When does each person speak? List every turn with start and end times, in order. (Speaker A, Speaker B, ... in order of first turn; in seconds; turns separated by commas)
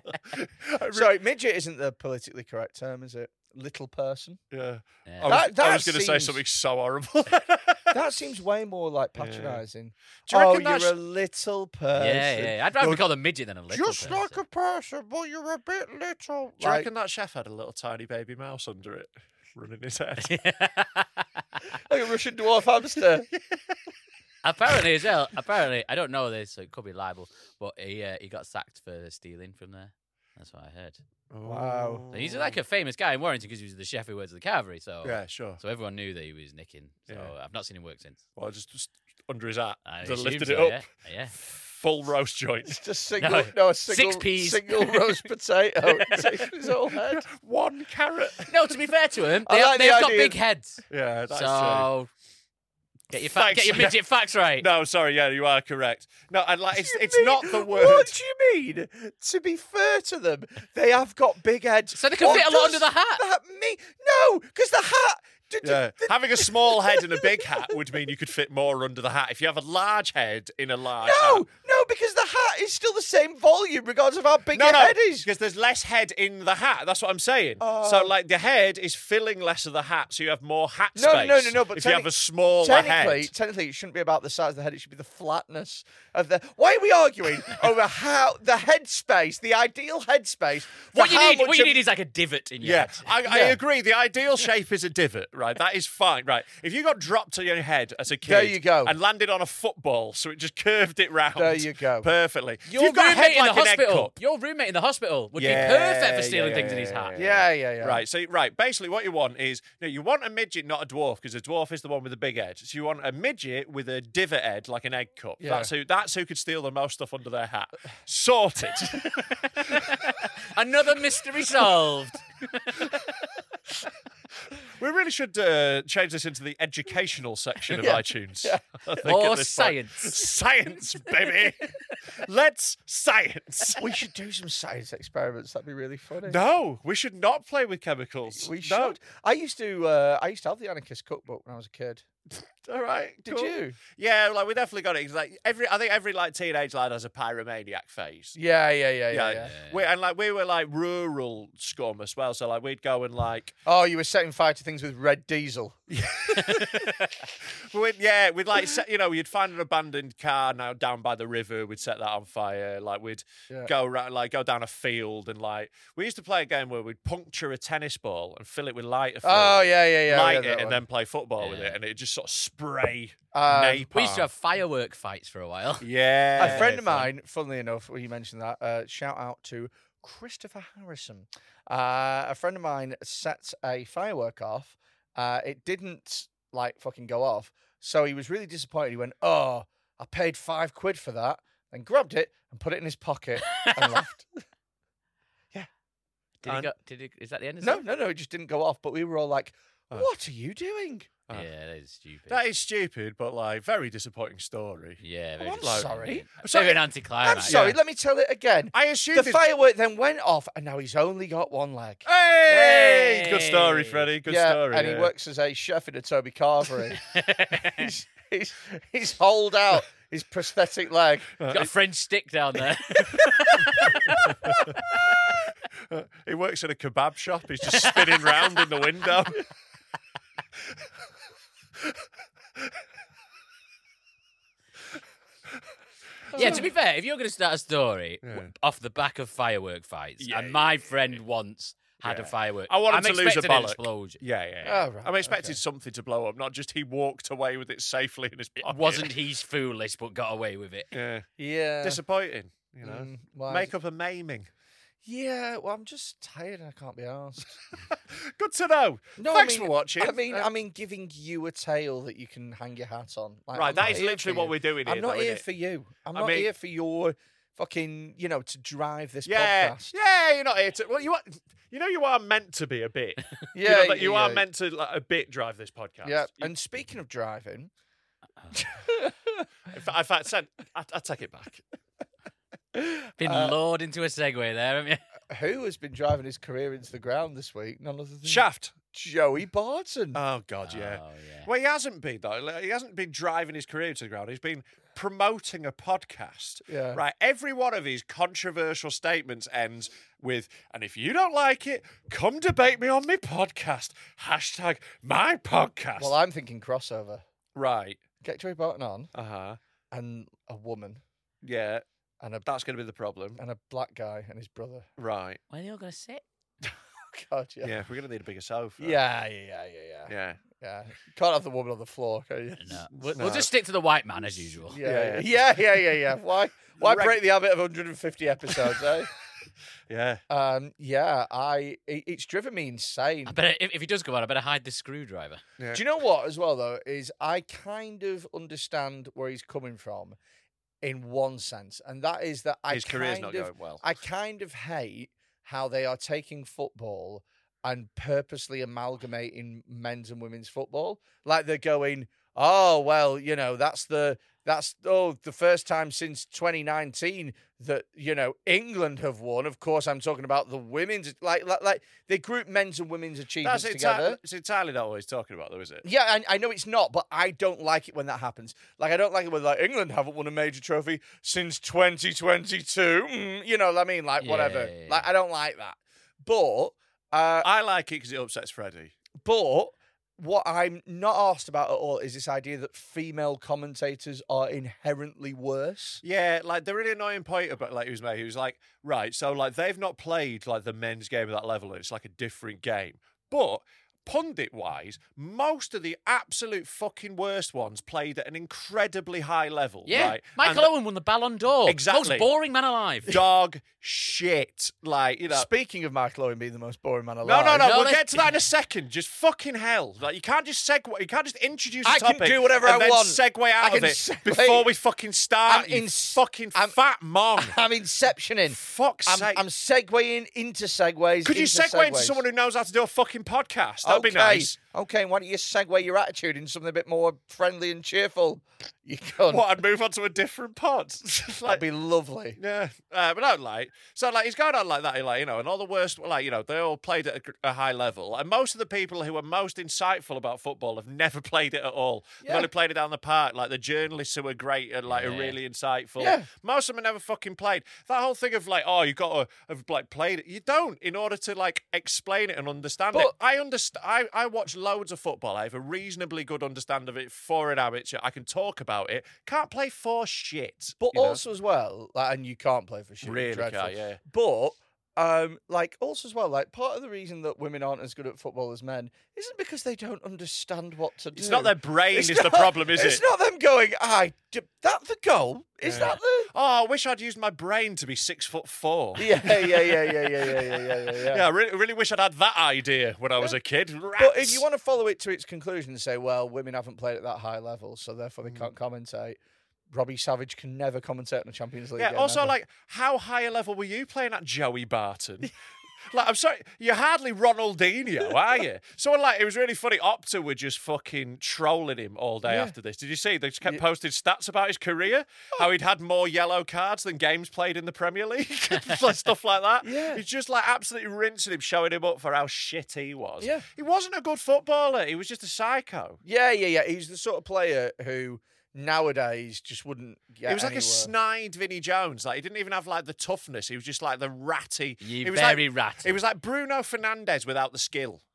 Speaker A: 0.4-1.1, Speaker B: 0.9-4.4, Speaker A: 4.5-7.9, Speaker C: 5.1-5.4, Speaker B: 5.3-6.4, Speaker B: 7.9-13.0, Speaker A: 9.2-9.6, Speaker A: 10.3-10.9, Speaker C: 11.9-14.4, Speaker B: 13.7-16.9, Speaker A: 16.6-20.3, Speaker C: 20.3-21.4, Speaker B: 21.9-23.3, Speaker C: 24.4-31.0, Speaker A: 31.3-32.6, Speaker B: 31.4-32.1, Speaker C: 32.1-38.2, Speaker A: 35.0-35.6, Speaker A: 38.4-40.9, Speaker C: 39.9-41.3, Speaker A: 41.8-42.8, Speaker B: 42.7-47.3, Speaker C: 43.2-45.0, Speaker C: 45.9-46.4, Speaker A: 47.0-48.5, Speaker C: 48.5-52.1, Speaker B: 49.5-50.4, Speaker A: 50.9-51.9, Speaker C: 53.1-54.7, Speaker A: 53.3-54.0, Speaker A: 54.6-58.1, Speaker B: 56.8-67.8, Speaker C: 62.0-63.2, Speaker A: 65.6-71.5, Speaker B: 71.0-75.3, Speaker A: 74.5-83.3, Speaker B: 77.6-78.1, Speaker B: 81.0-82.1, Speaker B: 82.6-91.8, Speaker C: 90.9-93.1, Speaker A: 92.6-104.1, Speaker B: 93.3-93.6, Speaker B: 98.2-98.9, Speaker B: 101.4-102.1, Speaker C: 102.7-107.2, Speaker A: 105.3-119.2, Speaker B: 107.2-108.0, Speaker B: 115.4-115.7, Speaker C: 119.2-123.0, Speaker A: 124.8-133.8, Speaker B: 127.8-128.6, Speaker C: 129.0-130.2, Speaker B: 133.8-136.4, Speaker A: 136.3-139.0, Speaker B: 138.3-142.0, Speaker A: 142.7-148.4, Speaker B: 143.3-143.8, Speaker B: 148.4-149.5, Speaker A: 149.1-153.6, Speaker C: 149.4-149.9, Speaker B: 153.7-155.8, Speaker A: 155.9-156.9, Speaker C: 156.6-156.9, Speaker A: 157.4-174.3, Speaker B: 169.2-170.8, Speaker C: 171.4-171.8, Speaker B: 173.3-173.8, Speaker C: 173.9-177.1, Speaker A: 175.8-176.7, Speaker B: 176.4-194.4, Speaker C: 193.6-194.0, Speaker C: 196.4-197.8, Speaker A: 196.5-196.7, Speaker B: 197.6-201.1, Speaker C: 201.3-202.4, Speaker A: 202.3-205.0, Speaker C: 205.0-207.8, Speaker B: 205.4-206.3, Speaker A: 205.6-207.8, Speaker B: 207.2-212.7, Speaker A: 208.7-209.5, Speaker A: 212.1-215.1, Speaker C: 212.5-214.1, Speaker B: 214.3-217.0, Speaker C: 217.1-217.9, Speaker B: 217.7-221.3, Speaker A: 221.4-221.7, Speaker C: 221.5-224.4, Speaker A: 225.9-229.4, Speaker B: 236.3-236.7, Speaker A: 236.3-236.7, Speaker C: 236.3-244.2, Speaker A: 238.2-238.5, Speaker A: 240.2-241.2, Speaker A: 242.0-249.1, Speaker B: 244.6-245.6, Speaker C: 248.6-250.9, Speaker A: 250.9-251.3, Speaker B: 251.4-252.0, Speaker A: 251.8-254.5, Speaker B: 252.8-253.7, Speaker B: 255.0-257.6, Speaker A: 257.9-260.5, Speaker B: 259.2-269.9, Speaker A: 263.5-265.4, Speaker A: 266.1-266.5, Speaker A: 269.3-276.5, Speaker B: 273.5-274.4, Speaker B: 276.0-277.7, Speaker B: 278.6-279.4, Speaker A: 279.7-281.6, Speaker B: 282.8-283.6, Speaker C: 283.2-285.0, Speaker B: 285.3-290.2, Speaker A: 288.2-288.7, Speaker A: 290.1-306.1, Speaker C: 290.7-291.5, Speaker B: 296.7-297.0, Speaker B: 306.0-307.2, Speaker A: 307.6-308.0, Speaker B: 308.2-309.1, Speaker A: 309.1-309.6, Speaker B: 309.9-311.0, Speaker A: 311.4-311.8, Speaker B: 312.2-312.5, Speaker A: 312.4-313.4, Speaker B: 313.4-314.9, Speaker A: 315.0-315.4, Speaker C: 315.5-316.2, Speaker B: 317.1-317.7, Speaker A: 317.6-319.0, Speaker B: 318.8-323.1, Speaker A: 320.1-320.4, Speaker C: 322.6-324.8, Speaker A: 323.1-323.5, Speaker B: 324.7-329.1, Speaker A: 324.8-325.3, Speaker A: 326.8-327.2, Speaker A: 329.9-330.2, Speaker B: 330.3-333.3, Speaker C: 333.3-335.4, Speaker B: 335.7-340.2, Speaker B: 340.8-364.2, Speaker A: 342.7-343.8, Speaker A: 363.4-365.8, Speaker B: 365.8-377.5, Speaker C: 374.2-375.1, Speaker A: 377.4-378.9, Speaker B: 379.2-386.0, Speaker A: 386.0-400.7, Speaker C: 399.9-403.2, Speaker A: 401.7-402.3, Speaker A: 403.1-405.5, Speaker B: 405.3-407.7, Speaker A: 407.2-417.6, Speaker C: 407.6-408.3, Speaker B: 411.9-414.7, Speaker B: 415.5-416.8, Speaker B: 417.4-422.2, Speaker A: 418.5-419.4, Speaker A: 421.2-424.6, Speaker B: 423.8-429.4, Speaker A: 429.3-431.6, Speaker B: 431.5-432.4, Speaker A: 432.4-461.2, Speaker B: 442.2-442.5, Speaker C: 444.9-445.4, Speaker B: 446.0-446.3, Speaker B: 460.8-476.3, Speaker A: 463.0-464.0, Speaker A: 471.2-473.0, Speaker A: 475.7-484.4, Speaker B: 479.0-481.3, Speaker B: 484.0-489.2, Speaker B: 489.7-492.4, Speaker A: 491.8-495.3, Speaker A: 495.9-516.0, Speaker B: 502.3-502.5, Speaker B: 509.6-510.0, Speaker B: 516.0-520.9, Speaker A: 520.3-528.0, Speaker C: 524.8-526.0